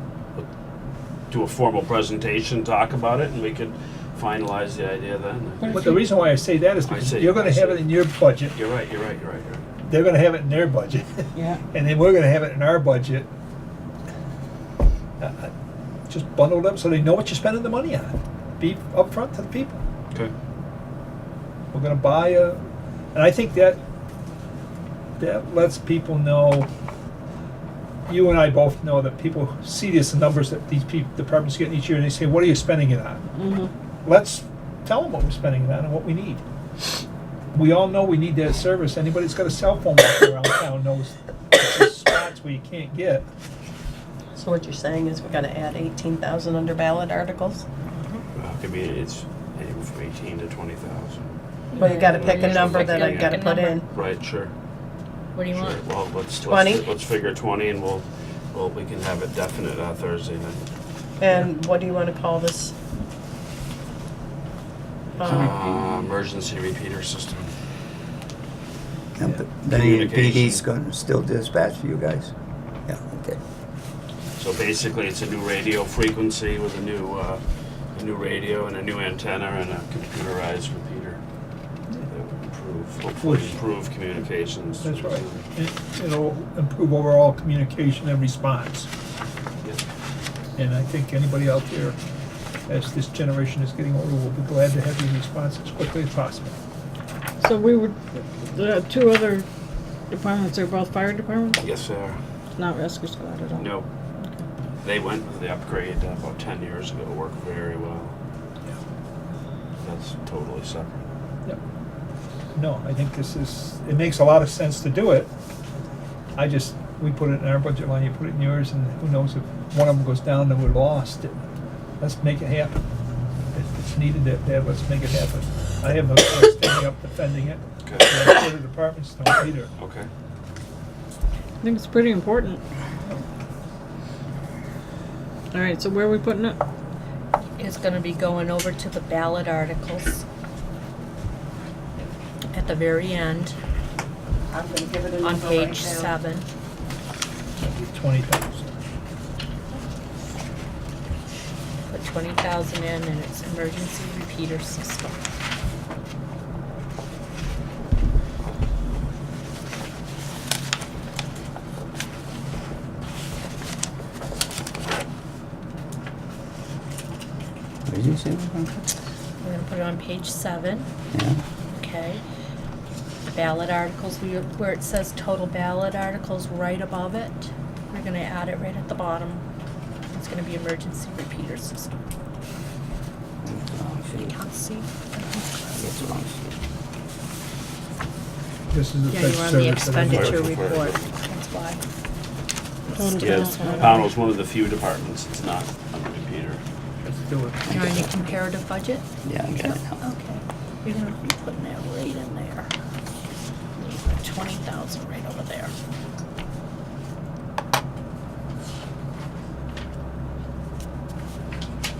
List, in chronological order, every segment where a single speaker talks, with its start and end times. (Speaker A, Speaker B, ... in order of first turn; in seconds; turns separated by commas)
Speaker A: 1.3-5.8, Speaker B: 5.6-6.1, Speaker C: 5.7-8.6, Speaker A: 6.8-7.9, Speaker A: 8.5-9.6, Speaker C: 9.8-13.3, Speaker C: 15.2-15.5, Speaker C: 16.1-19.8, Speaker C: 21.7-22.6, Speaker C: 23.1-23.8, Speaker C: 25.2-26.7, Speaker C: 28.1-33.2, Speaker B: 33.4-33.7, Speaker C: 34.0-36.4, Speaker C: 37.5-43.3, Speaker D: 44.3-47.6, Speaker E: 48.0-48.2, Speaker A: 48.4-51.4, Speaker B: 51.7-52.1, Speaker D: 51.8-53.9, Speaker E: 51.8-53.8, Speaker A: 52.0-53.4, Speaker A: 53.9-54.5, Speaker E: 55.3-55.8, Speaker A: 55.5-60.6, Speaker D: 56.4-56.9, Speaker D: 61.2-62.7, Speaker D: 65.2-65.6, Speaker A: 65.2-67.5, Speaker F: 65.2-65.8, Speaker F: 69.2-72.3, Speaker A: 69.6-70.6, Speaker F: 72.9-73.4, Speaker A: 74.4-77.4, Speaker A: 77.9-81.2, Speaker A: 82.0-85.5, Speaker C: 83.2-83.6, Speaker C: 84.8-88.9, Speaker C: 90.5-92.0, Speaker C: 92.7-96.5, Speaker B: 97.4-99.5, Speaker B: 100.1-101.6, Speaker A: 101.6-102.2, Speaker B: 102.6-103.7, Speaker A: 103.6-103.9, Speaker A: 104.8-108.2, Speaker A: 109.8-111.0, Speaker C: 112.5-115.3, Speaker C: 116.4-121.4, Speaker C: 122.0-122.8, Speaker C: 123.5-129.7, Speaker A: 127.8-128.1, Speaker A: 129.8-130.1, Speaker B: 131.6-132.6, Speaker B: 135.5-136.6, Speaker E: 137.6-140.2, Speaker E: 142.5-143.6, Speaker D: 144.5-146.1, Speaker E: 145.2-146.4, Speaker C: 147.6-148.8, Speaker E: 151.8-155.2, Speaker F: 167.8-168.7, Speaker E: 169.4-170.9, Speaker F: 171.1-171.4, Speaker E: 171.7-172.2, Speaker E: 173.3-179.4, Speaker E: 180.1-181.9, Speaker F: 183.4-184.4, Speaker E: 184.1-186.0, Speaker F: 185.7-186.4, Speaker C: 188.7-190.5, Speaker E: 189.1-191.8, Speaker A: 190.0-191.1, Speaker E: 192.9-194.1, Speaker B: 192.9-194.0, Speaker A: 193.2-196.6, Speaker C: 197.0-197.7, Speaker F: 197.7-198.1, Speaker E: 197.7-202.7, Speaker F: 199.2-200.0, Speaker E: 203.8-205.7